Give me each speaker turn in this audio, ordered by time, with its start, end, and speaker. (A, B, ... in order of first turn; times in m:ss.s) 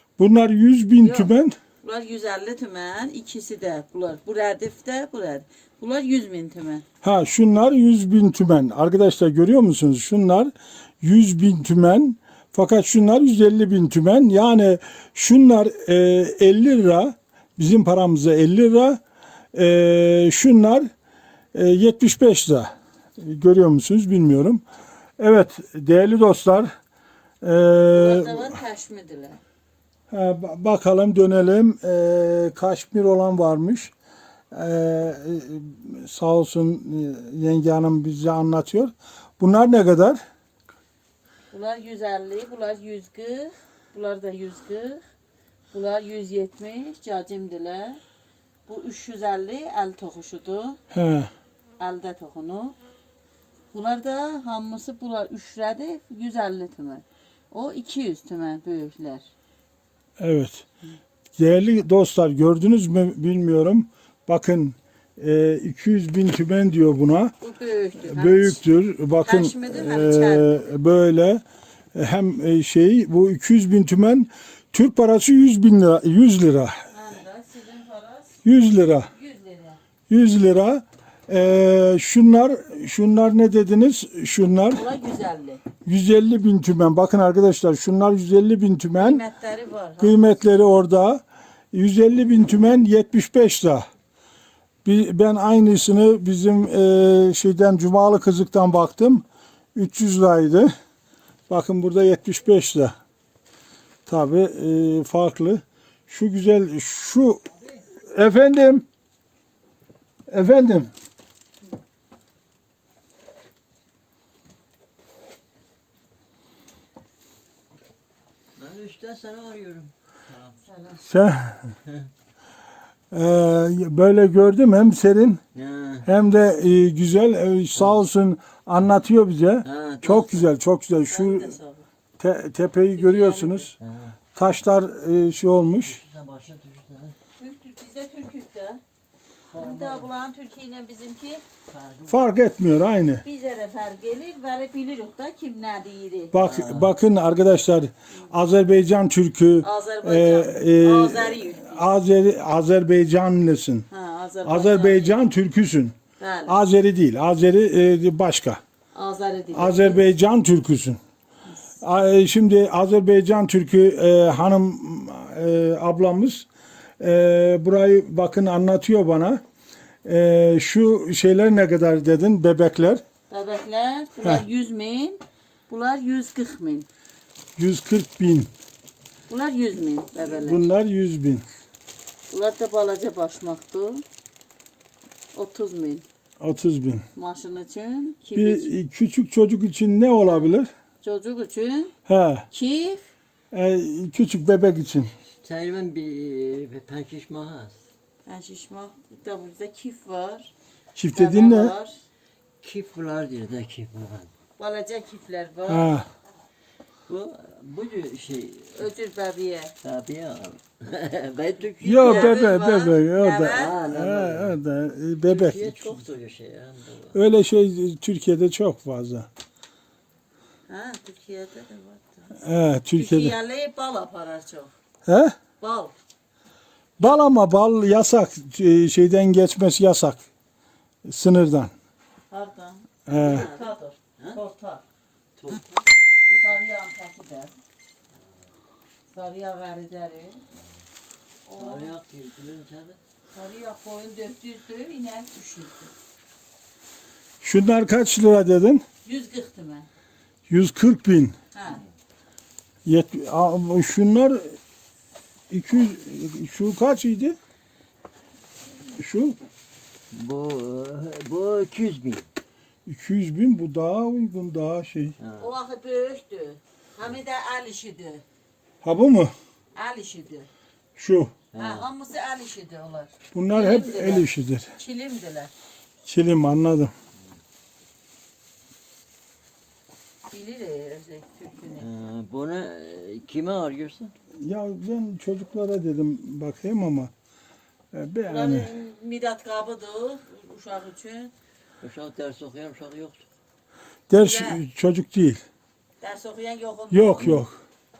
0:00.2-0:01.6 A
0:01.0-0:06.8 B
0:07.0-0:19.0 A
0:19.5-0:20.9 A
0:21.5-0:24.6 A
0:25.2-0:26.7 A
0:27.4-0:28.5 A
0:27.9-0:29.4 B
0:30.1-0:33.9 A
0:34.5-0:40.2 A
0:41.5-0:45.0 B
0:45.7-0:48.0 B
0:48.7-0:50.8 B
0:50.9-0:51.3 A
0:51.8-0:52.8 B
0:53.7-0:59.3 B
1:00.2-1:00.6 A
1:01.4-1:07.3 A
1:07.4-1:08.6 B
1:08.0-1:11.4 A
1:09.2-1:10.7 B
1:11.9-1:16.8 A
1:16.9-1:18.4 B
1:18.4-1:19.1 A
1:19.1-1:19.8 B
1:20.1-1:24.8 A
1:24.7-1:25.6 B
1:25.8-1:29.2 A
1:29.0-1:30.3 B
1:30.0-1:33.8 A
1:34.8-1:40.7 A
1:41.5-1:42.9 A
1:44.0-1:47.4 A
1:48.1-1:48.8 A
1:50.3-1:50.9 A
1:58.6-2:00.6 C
2:00.6-2:01.0 B
2:01.0-2:01.7 A
2:03.1-2:05.4 A
2:05.5-2:06.1 C
2:06.0-2:11.6 A
2:07.8-2:08.0 C
2:09.6-2:10.5 C
2:11.1-2:11.9 B
2:12.2-2:13.7 A
2:12.9-2:13.7 B
2:13.8-2:14.2 C
2:14.4-2:16.0 A
2:15.8-2:17.2 C
2:17.4-2:18.8 B
2:19.5-2:20.1 C
2:19.5-2:21.4 B
2:21.7-2:22.2 C
2:22.1-2:23.2 A
2:23.2-2:26.4 B
2:26.3-2:33.9 A
2:26.4-2:26.9 C
2:29.6-2:31.8 B
2:33.9-2:35.2 B
2:34.4-2:36.0 A
2:36.2-2:36.6 B
2:36.5-2:38.6 A
2:38.9-2:40.0 B
2:39.5-2:41.0 A
2:41.8-2:46.5 A
2:47.0-2:49.4 A
2:50.0-2:53.0 A
2:53.3-2:56.9 B
2:57.6-2:58.5 A
2:59.3-3:00.6 B
3:00.2-3:01.4 A
3:02.3-3:04.0 B
3:05.3-3:06.0 B
3:06.4-3:07.0 A
3:07.2-3:08.7 B
3:08.3-3:10.7 A
3:11.0-3:11.9 B
3:12.0-3:12.4 A
3:12.5-3:13.1 B
3:13.5-3:15.1 A
3:15.4-3:17.8 C
3:18.2-3:20.5 B
3:21.0-3:21.7 A
3:21.1-3:22.0 B
3:22.6-3:24.3 C
3:24.6-3:26.0 B
3:25.7-3:26.1 A
3:27.1-3:28.9 C
3:28.7-3:29.7 B
3:29.8-3:32.4 C
3:31.8-3:36.0 A
3:32.0-3:33.7 B
3:33.5-3:34.6 C
3:35.3-3:37.2 C
3:37.1-3:39.3 A
3:40.7-3:42.3 B
3:42.4-3:43.4 A
3:42.9-3:44.7 B
3:45.0-3:45.3 A
3:45.6-3:45.9 B
3:47.0-3:50.2 A
3:51.0-3:51.7 A
3:52.3-3:54.8 B
3:53.1-3:53.5 A
3:55.4-3:56.6 C
3:56.3-3:57.5 B
3:59.1-4:00.4 B
4:01.4-4:01.9 B
4:01.6-4:03.0 C
4:03.3-4:05.9 B
4:07.4-4:08.8 A
4:09.0-4:09.9 B
4:10.5-4:11.4 A
4:11.5-4:11.8 B
4:12.8-4:14.6 A
4:15.5-4:17.4 A
4:19.0-4:19.4 A
4:20.1-4:22.2 C
4:22.8-4:25.2 A
4:25.2-4:25.5 C
4:25.4-4:28.2 B
4:28.8-4:29.3 A
4:29.7-4:30.5 B
4:31.0-4:31.3 A
4:31.5-4:31.9 C
4:31.5-4:35.5 B
4:33.3-4:34.7 A
4:36.0-4:36.9 A
4:40.3-4:41.9 B
4:41.8-4:44.1 C
4:44.4-4:47.1 A
4:47.9-4:48.7 A
4:48.2-4:51.3 B
4:51.8-4:53.2 C
4:54.1-4:55.4 A
4:54.1-4:54.6 B
4:56.0-4:57.4 B
4:56.9-4:57.5 A